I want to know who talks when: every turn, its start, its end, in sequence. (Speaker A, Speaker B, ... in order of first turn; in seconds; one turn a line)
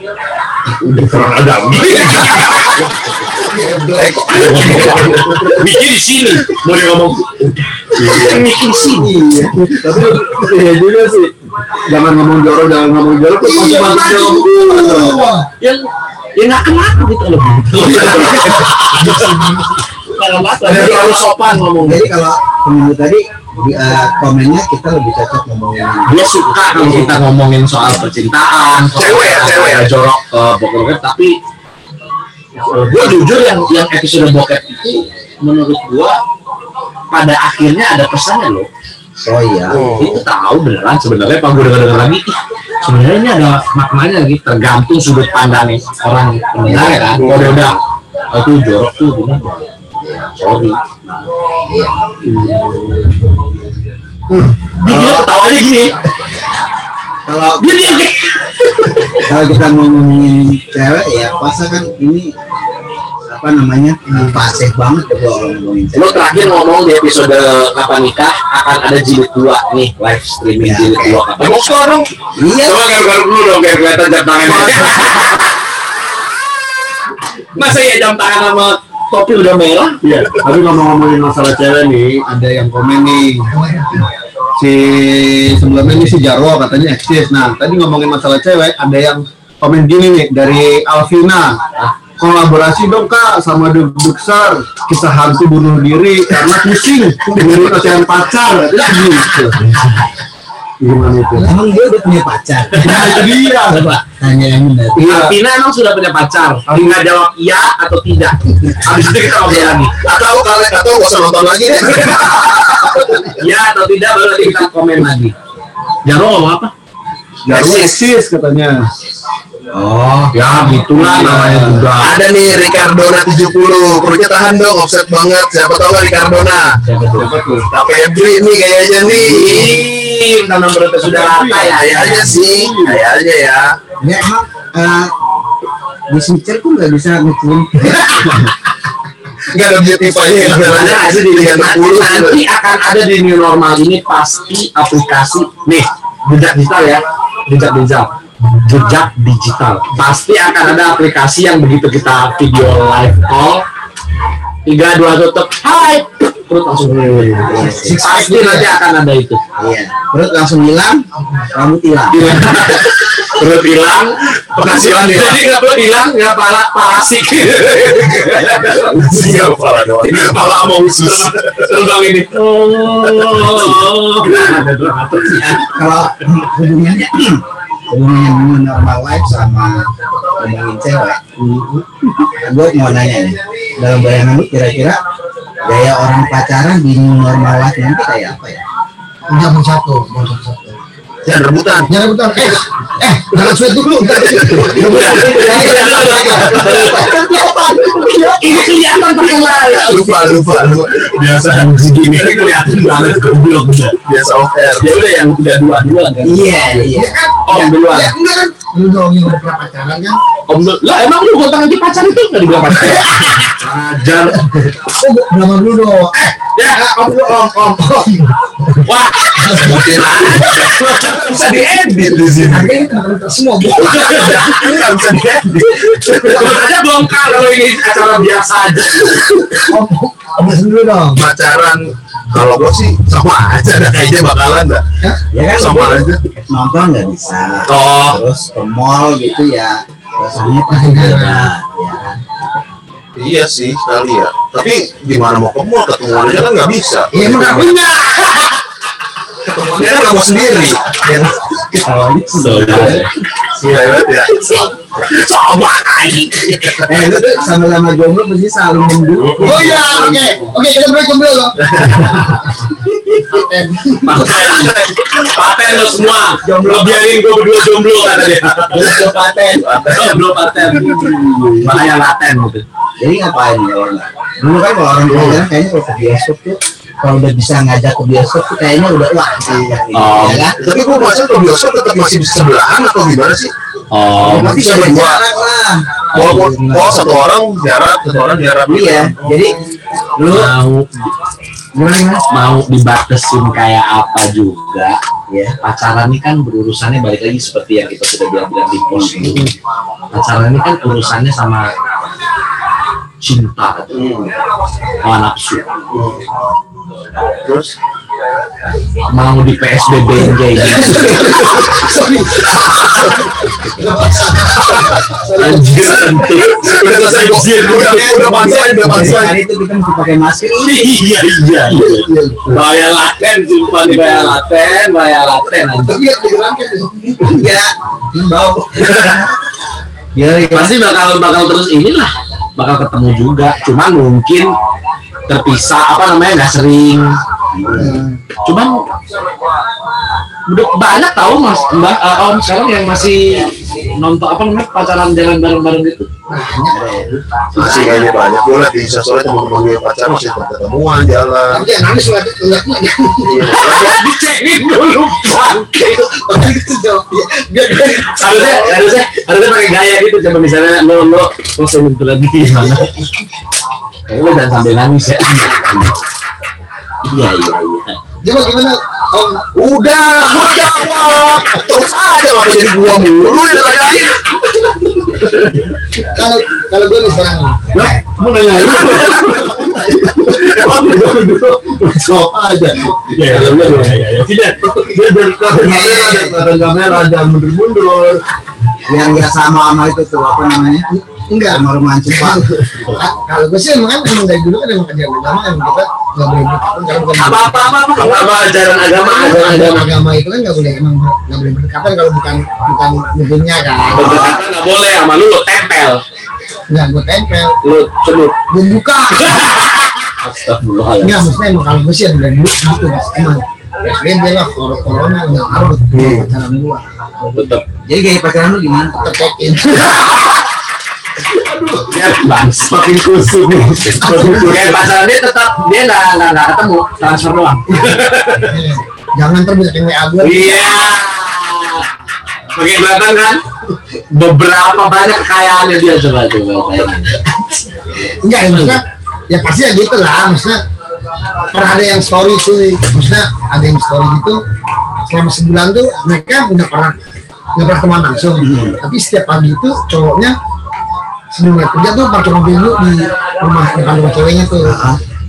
Speaker A: 0.8-3.5
Speaker B: 3.5-4.9
Speaker C: 3.9-5.5
Speaker A: 4.4-9.2
Speaker D: 8.0-8.3
Speaker D: 9.1-11.3
Speaker D: 11.9-15.2
Speaker B: 13.4-15.5
Speaker A: 15.6-19.3
Speaker B: 18.5-19.8
Speaker A: 20.1-22.1
Speaker E: 20.7-21.2
Speaker E: 21.7-27.2
Speaker A: 26.1-31.4
Speaker C: 29.0-29.9
Speaker A: 32.6-36.2
Speaker A: 37.1-38.7
Speaker E: 39.2-40.2
Speaker C: 39.7-40.1
Speaker A: 40.0-47.8
Speaker E: 46.7-47.3
Speaker C: 47.2-47.7
Speaker A: 48.3-50.8
Speaker E: 51.7-52.0
Speaker D: 52.2-53.1
Speaker A: 54.8-55.9
Speaker E: 54.8-55.3
Speaker E: 57.3-58.1
Speaker A: 57.6-59.0
Speaker E: 59.2-62.3
Speaker E: 63.2-66.5
Speaker A: 66.0-71.7
Speaker E: 70.6-71.2
Speaker C: 71.4-72.1
Speaker E: 72.4-72.9
Speaker A: 72.6-75.5
Speaker A: 77.1-80.0
Speaker D: 80.0-83.5
Speaker B: 83.5-84.0
Speaker D: 84.6-99.6
Speaker D: 100.8-101.5
Speaker E: 101.4-105.0
Speaker D: 102.8-103.9
Speaker D: 105.0-105.4
Speaker A: 105.0-109.9
Speaker D: 106.7-107.0
Speaker C: 109.9-113.3
Speaker A: 112.1-112.7
Speaker A: 113.3-115.3
Speaker A: 116.1-116.7
Speaker D: 117.5-118.9
Speaker A: 117.5-117.9
Speaker E: 119.7-120.8
Speaker A: 120.3-122.1
Speaker D: 120.9-121.9
Speaker C: 122.0-126.8
Speaker A: 126.8-127.3
Speaker D: 127.1-127.7
Speaker C: 127.7-129.8
Speaker A: 129.2-132.4
Speaker D: 131.0-133.0
Speaker C: 131.8-133.8
Speaker E: 134.0-135.1
Speaker E: 136.1-138.3
Speaker C: 139.5-142.4
Speaker A: 140.4-153.6
Speaker A: 154.7-159.4
Speaker E: 157.4-158.0
Speaker B: 157.5-158.8
Speaker E: 159.6-162.5
Speaker A: 162.1-169.4
Speaker C: 164.6-165.4
Speaker C: 168.6-171.7
Speaker A: 170.0-175.8
Speaker E: 175.4-181.2
Speaker D: 181.4-181.8
Speaker E: 182.4-185.0
Speaker E: 185.6-188.6
Speaker B: 189.3-190.8
Speaker C: 191.2-191.9
Speaker B: 191.9-198.7
Speaker C: 194.0-197.0
Speaker A: 194.6-197.2
Speaker A: 198.3-200.2
Speaker C: 199.4-203.2
Speaker A: 201.5-204.0
Speaker C: 204.0-205.0
Speaker A: 204.8-206.7
Speaker E: 206.2-207.1
Speaker B: 206.9-210.2
Speaker A: 207.4-208.1
Speaker A: 210.5-214.7
Speaker B: 214.7-218.8
Speaker A: 216.6-217.0
Speaker A: 218.8-222.2
Speaker C: 219.4-222.7
Speaker B: 222.4-224.4
Speaker A: 223.7-224.7
Speaker C: 223.8-226.6
Speaker A: 226.1-229.4
Speaker B: 229.5-231.2
Speaker C: 231.2-234.8
Speaker E: 235.3-242.2
Speaker C: 235.5-236.2
Speaker A: 237.7-238.2
Speaker B: 240.7-241.5
Speaker C: 243.2-247.7
Speaker B: 247.1-248.6
Speaker C: 249.4-251.3
Speaker E: 251.7-253.1
Speaker A: 252.3-253.1
Speaker C: 253.5-254.7
Speaker A: 255.0-256.9
Speaker E: 256.9-260.5
Speaker C: 259.2-259.9
Speaker B: 259.4-264.8
Speaker A: 264.0-269.1
Speaker C: 264.2-265.7
Speaker E: 266.4-267.2
Speaker E: 268.7-269.8
Speaker C: 269.6-270.2
Speaker A: 269.9-272.6
Speaker D: 271.1-271.6
Speaker E: 273.0-280.7
Speaker C: 275.1-275.4
Speaker A: 279.9-280.5
Speaker C: 280.6-283.5
Speaker A: 283.9-284.7
Speaker E: 284.2-287.2
Speaker C: 284.2-285.2
Speaker C: 286.1-289.6
Speaker E: 288.7-289.6
Speaker E: 290.1-290.5
Speaker A: 290.3-291.1
Speaker E: 291.7-292.3
Speaker A: 292.3-295.0
Speaker E: 295.3-295.6
Speaker A: 295.6-299.5
Speaker E: 298.9-299.5
Speaker A: 300.1-301.7
Speaker A: 303.2-304.1
Speaker C: 303.9-304.3
Speaker A: 305.0-305.7
Speaker C: 305.9-306.2
Speaker C: 307.4-307.8
Speaker A: 309.1-311.4
Speaker B: 310.8-313.1
Speaker B: 313.7-316.0
Speaker A: 315.3-318.0
Speaker C: 315.6-319.4
Speaker E: 317.6-321.0
Speaker A: 320.6-326.0
Speaker D: 322.1-322.6
Speaker E: 323.9-324.4
Speaker B: 325.8-327.4
Speaker E: 327.2-329.3
Speaker E: 330.1-330.8
Speaker A: 330.5-334.5
Speaker A: 335.3-337.2
Speaker E: 337.5-338.1
Speaker B: 337.8-338.2
Speaker A: 338.4-338.8
Speaker A: 340.5-346.1
Speaker B: 346.3-347.2
Speaker E: 346.7-347.2
Speaker A: 347.5-348.1
Speaker C: 347.6-351.6
Speaker B: 351.5-353.6
Speaker C: 353.3-354.0
Speaker A: 353.4-356.5
Speaker B: 356.3-358.9
Speaker A: 357.9-362.9
Speaker A: 364.1-366.0
Speaker A: 367.0-368.0
Speaker B: 368.2-369.5
Speaker C: 369.6-374.2
Speaker A: 370.3-371.4
Speaker B: 376.1-377.7
Speaker D: 377.7-388.2
Speaker A: 378.6-379.5
Speaker A: 383.1-384.5
Speaker E: 385.5-386.4
Speaker E: 388.9-390.9
Speaker B: 390.9-398.2
Speaker E: 391.5-392.5
Speaker A: 397.2-399.9
Speaker B: 398.9-404.3
Speaker A: 403.9-406.0
Speaker E: 403.9-404.4
Speaker B: 406.7-407.6
Speaker A: 407.6-408.4
Speaker B: 408.5-409.7
Speaker A: 410.2-411.3
Speaker B: 411.0-416.9
Speaker C: 415.9-416.2
Speaker E: 417.2-419.1
Speaker A: 417.3-417.6
Speaker B: 419.0-420.1
Speaker A: 421.8-422.9
Speaker D: 422.7-424.6
Speaker A: 423.9-428.6
Speaker B: 427.8-430.8
Speaker A: 430.2-431.9
Speaker A: 432.5-433.4
Speaker A: 434.1-437.2
Speaker B: 438.2-440.6
Speaker A: 438.4-438.8
Speaker B: 441.5-444.4
Speaker B: 445.1-447.0
Speaker B: 447.6-450.4
Speaker E: 448.4-448.8
Speaker B: 451.3-454.8
Speaker E: 454.6-455.0